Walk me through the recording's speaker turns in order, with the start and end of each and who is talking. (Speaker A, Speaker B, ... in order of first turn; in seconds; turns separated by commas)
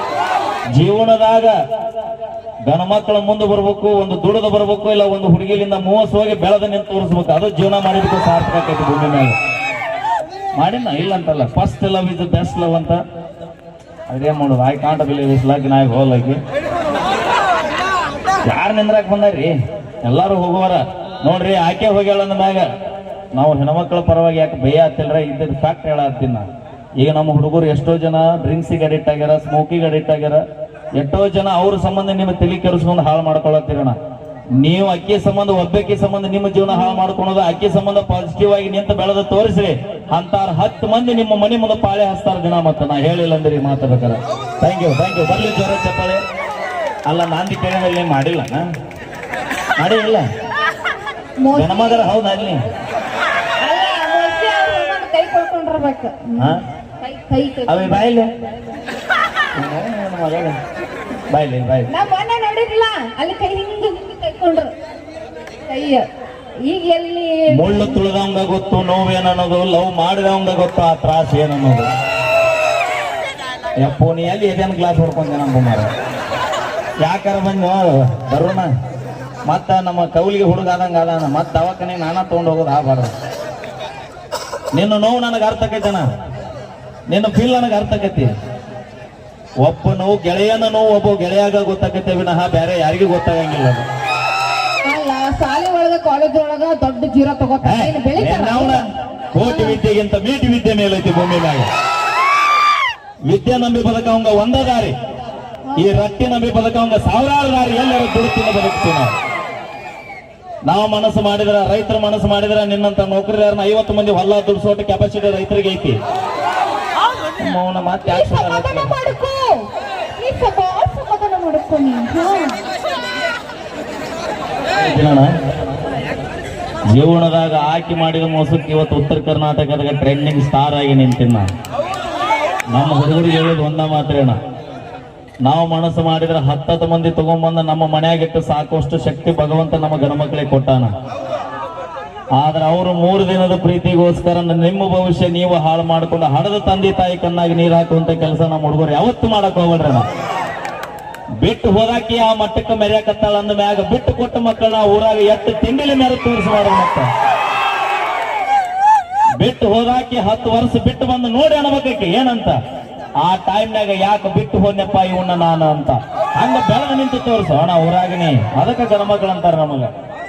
Speaker A: 0.7-1.5, Speaker A: 2.7-9.4, Speaker A: 10.6-13.0, Speaker A: 14.1-16.4, Speaker A: 18.5-22.6, Speaker A: 23.3-26.5, Speaker A: 27.0-30.4, Speaker A: 31.0-34.0, Speaker A: 34.6-46.2, Speaker A: 47.1-48.7, Speaker A: 49.8-50.2, Speaker B: 51.4-52.1, Speaker A: 51.5-52.6, Speaker B: 53.6-58.1, Speaker A: 57.7-58.3, Speaker A: 59.6-60.6, Speaker A: 61.3-61.9, Speaker B: 61.9-64.7, Speaker B: 65.7-66.1, Speaker B: 66.6-68.0, Speaker A: 67.5-71.9, Speaker A: 73.8-75.9, Speaker A: 77.0-78.7, Speaker A: 79.5-83.1, Speaker A: 84.7-86.1, Speaker A: 87.1-88.3, Speaker A: 89.6-93.8, Speaker B: 94.8-98.9, Speaker A: 97.6-101.7, Speaker B: 99.4-99.8, Speaker A: 103.3-104.9, Speaker A: 105.8-109.2, Speaker A: 110.7-116.0, Speaker A: 117.4-119.0, Speaker B: 118.1-122.6, Speaker A: 124.8-125.3, Speaker A: 126.9-131.5, Speaker A: 132.7-134.4, Speaker A: 135.4-140.9, Speaker A: 142.4-150.1, Speaker A: 151.4-157.1, Speaker A: 159.4-162.6, Speaker A: 163.2-169.9